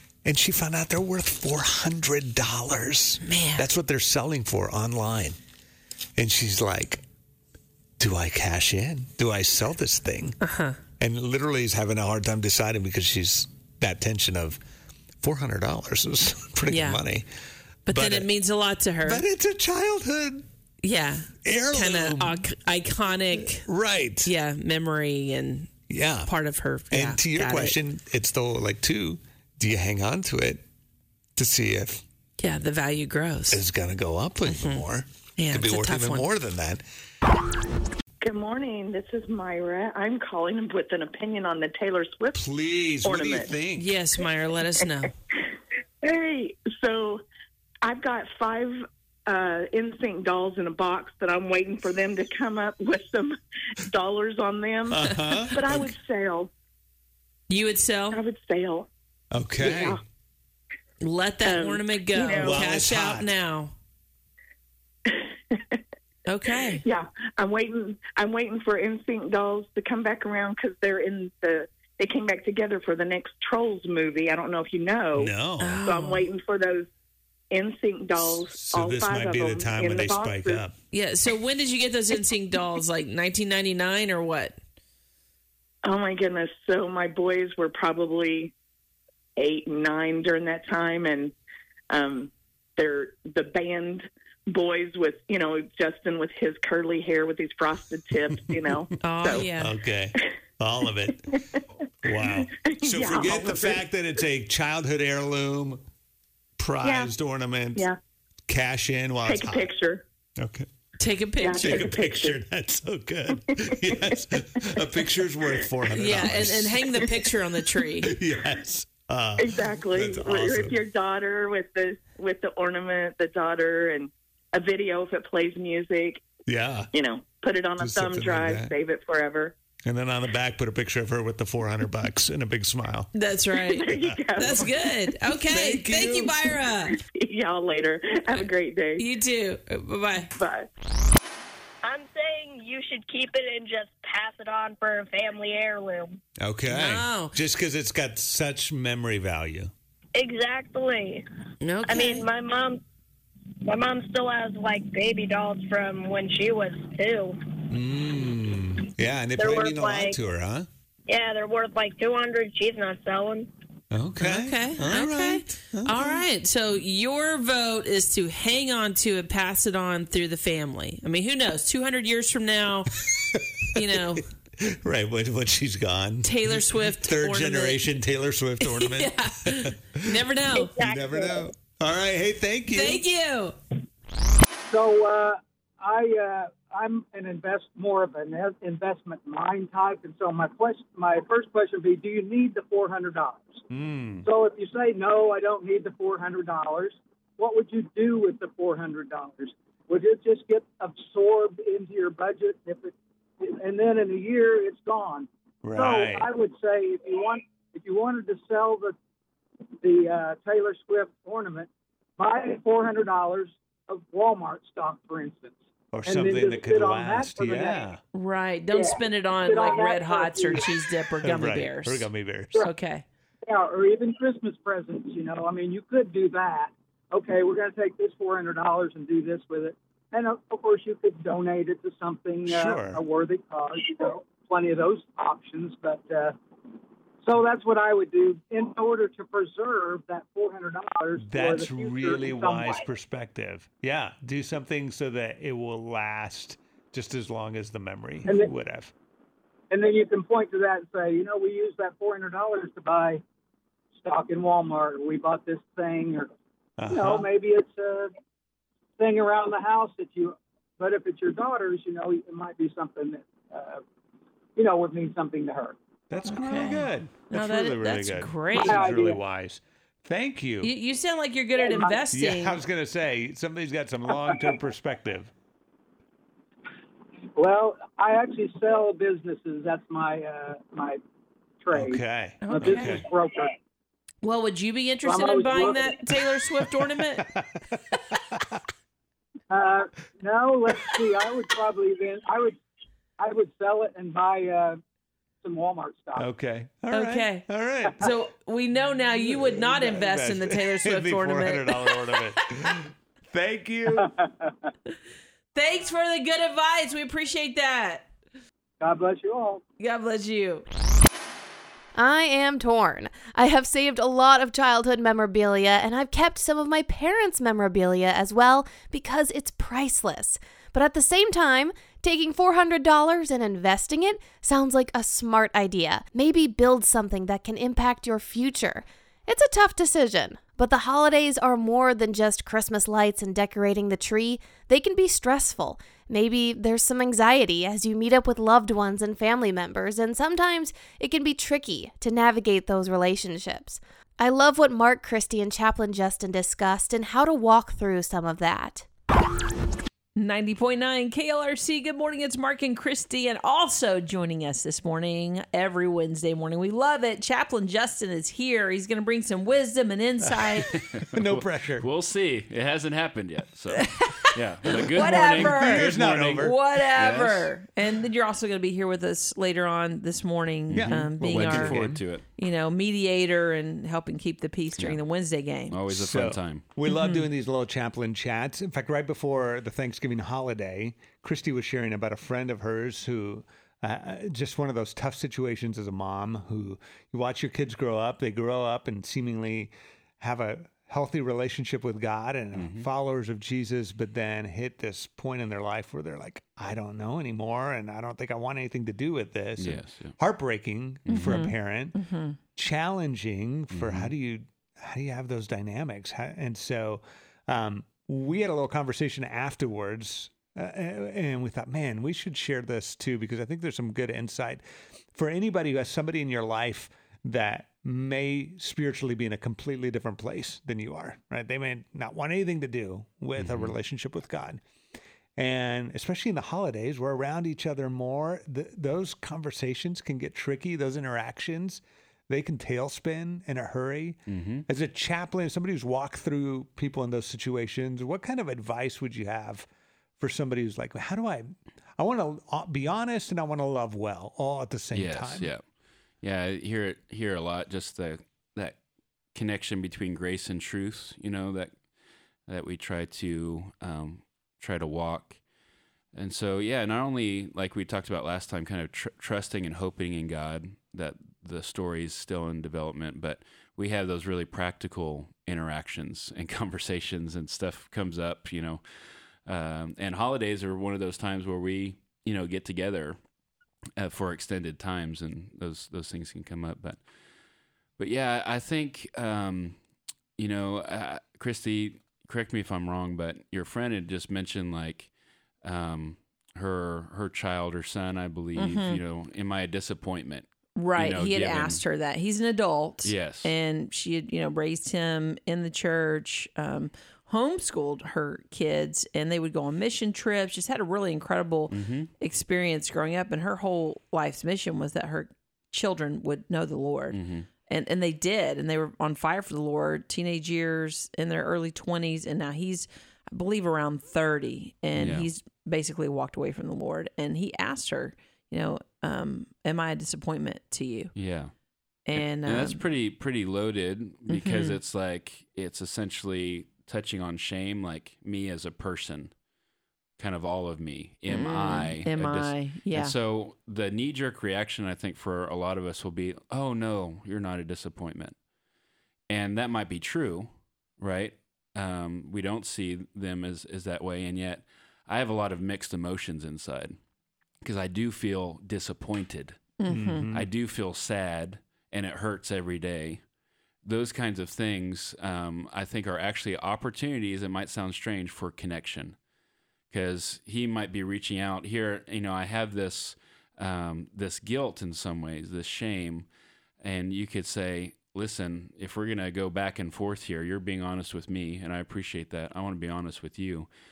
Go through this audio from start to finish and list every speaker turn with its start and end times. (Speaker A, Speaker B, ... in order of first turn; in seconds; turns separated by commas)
Speaker A: 0.2-5.4, Speaker B: 3.2-3.6, Speaker A: 6.2-7.0, Speaker A: 8.0-10.4, Speaker B: 10.4-10.8, Speaker A: 11.0-14.6, Speaker A: 15.2-17.2, Speaker B: 16.7-17.0, Speaker B: 17.9-19.2, Speaker A: 17.9-18.3, Speaker A: 19.1-20.5, Speaker B: 20.8-23.7, Speaker A: 21.4-22.4, Speaker A: 23.6-24.3, Speaker B: 24.2-27.8, Speaker A: 25.9-26.3, Speaker A: 26.9-30.6, Speaker A: 31.4-32.0, Speaker B: 32.4-33.6, Speaker A: 33.5-36.8, Speaker B: 34.5-34.9, Speaker B: 35.4-36.3, Speaker C: 38.2-42.5, Speaker A: 42.4-43.9, Speaker C: 43.0-43.5, Speaker B: 43.8-45.1, Speaker C: 46.0-47.2, Speaker C: 47.8-56.5, Speaker A: 54.9-55.9, Speaker B: 55.3-55.9, Speaker B: 57.5-58.2, Speaker C: 58.1-58.9, Speaker A: 59.3-60.0, Speaker C: 59.6-60.0, Speaker B: 61.0-63.7, Speaker C: 61.4-62.6, Speaker A: 62.4-63.2, Speaker C: 65.1-65.8, Speaker B: 66.2-66.8, Speaker C: 66.8-76.9, Speaker A: 75.2-75.8, Speaker B: 75.6-76.2, Speaker C: 77.5-80.6, Speaker A: 78.3-80.7, Speaker B: 80.9-84.6, Speaker C: 85.9-88.5, Speaker C: 89.4-91.3, Speaker C: 91.9-99.5, Speaker B: 99.0-99.7, Speaker A: 99.5-101.2, Speaker A: 102.1-105.8, Speaker C: 102.2-103.9, Speaker A: 106.6-107.9, Speaker C: 106.8-107.1, Speaker A: 108.5-109.7, Speaker C: 109.2-110.0, Speaker A: 110.4-110.7, Speaker B: 111.0-112.0, Speaker C: 111.4-112.4, Speaker A: 111.6-116.9, Speaker C: 113.8-114.2, Speaker B: 115.9-118.1, Speaker A: 118.0-120.8, Speaker C: 119.4-126.3, Speaker A: 126.5-126.9, Speaker C: 126.9-129.6, Speaker A: 127.8-128.7, Speaker A: 129.9-133.1, Speaker B: 133.1-137.0, Speaker C: 133.7-134.6, Speaker A: 135.5-136.3, Speaker C: 137.1-139.1, Speaker B: 139.0-140.3, Speaker C: 140.4-140.7, Speaker D: 141.8-146.2, Speaker A: 146.4-149.7, Speaker B: 146.7-147.3, Speaker D: 150.2-151.2, Speaker B: 151.6-152.3, Speaker D: 151.9-152.8, Speaker D: 153.7-157.4, Speaker A: 157.7-160.7, Speaker D: 159.3-160.2, Speaker D: 161.1-163.5, Speaker A: 163.9-166.2, Speaker B: 164.2-172.9, Speaker B: 173.8-174.2, Speaker A: 174.8-179.2, Speaker B: 176.2-177.8, Speaker B: 178.6-180.8, Speaker D: 180.5-181.5, Speaker A: 180.8-183.0, Speaker B: 182.7-183.6, Speaker E: 184.7-193.6, Speaker F: 193.7-194.3, Speaker E: 194.2-208.9, Speaker F: 205.6-206.3, Speaker E: 209.8-217.9, Speaker F: 215.9-218.0, Speaker B: 218.1-223.0, Speaker E: 218.7-220.7, Speaker F: 221.2-222.6, Speaker E: 223.4-236.4, Speaker F: 232.4-233.0, Speaker E: 237.2-242.9, Speaker F: 241.2-248.9, Speaker E: 248.3-248.5, Speaker E: 249.7-253.2, Speaker E: 253.9-256.3, Speaker F: 256.8-257.3, Speaker E: 256.9-258.1, Speaker E: 259.0-263.8, Speaker E: 264.6-265.8, Speaker F: 266.1-270.7, Speaker B: 266.3-268.9, Speaker E: 268.5-269.2, Speaker B: 270.6-272.6, Speaker E: 271.6-272.0, Speaker F: 272.1-275.3, Speaker E: 274.1-274.6, Speaker E: 277.4-281.0, Speaker E: 281.6-283.6, Speaker F: 281.7-283.1, Speaker B: 282.4-283.0, Speaker B: 284.2-287.3, Speaker E: 285.1-286.0, Speaker F: 287.2-287.6, Speaker E: 289.5-292.6, Speaker E: 293.2-294.8, Speaker E: 295.4-296.3, Speaker F: 296.2-298.0, Speaker B: 296.9-302.7, Speaker F: 299.1-302.8, Speaker A: 303.3-303.9, Speaker E: 303.9-304.5, Speaker B: 305.6-308.1, Speaker E: 308.8-309.6, Speaker B: 309.8-310.6, Speaker G: 311.9-348.9, Speaker B: 350.2-360.7, Speaker H: 360.9-367.5, Speaker F: 361.1-361.9, Speaker B: 363.8-364.3, Speaker F: 364.9-366.6, Speaker B: 364.9-375.7, Speaker F: 370.7-372.0, Speaker H: 370.7-372.2, Speaker H: 375.7-376.7, Speaker F: 375.9-402.0, Speaker B: 376.9-377.3, Speaker H: 392.5-392.9, Speaker H: 399.6-400.2, Speaker H: 401.1-401.4, Speaker B: 401.1-402.4, Speaker F: 402.6-424.6, Speaker H: 403.7-404.1, Speaker H: 423.4-423.8, Speaker F: 425.4-439.7, Speaker H: 434.3-434.7, Speaker F: 440.2-445.5, Speaker H: 444.9-445.7, Speaker H: 446.2-448.8, Speaker H: 449.3-451.8, Speaker H: 452.4-455.4, Speaker H: 456.1-468.8, Speaker H: 469.4-473.2, Speaker H: 474.0-477.0, Speaker H: 478.0-479.8, Speaker H: 480.4-485.1, Speaker H: 485.6-491.8, Speaker B: 488.6-489.0, Speaker B: 490.8-521.1, Speaker H: 493.0-493.5, Speaker H: 501.7-502.1, Speaker H: 507.1-507.5, Speaker H: 514.9-515.3, Speaker H: 521.1-521.5, Speaker B: 522.1-522.8, Speaker H: 522.1-529.4, Speaker B: 524.3-524.8, Speaker H: 530.2-538.4, Speaker B: 531.3-533.1, Speaker H: 539.3-547.0, Speaker H: 547.6-549.7, Speaker B: 549.8-550.3, Speaker F: 549.9-550.5, Speaker H: 550.3-553.2, Speaker H: 553.8-559.2, Speaker H: 559.9-566.3, Speaker H: 566.8-573.7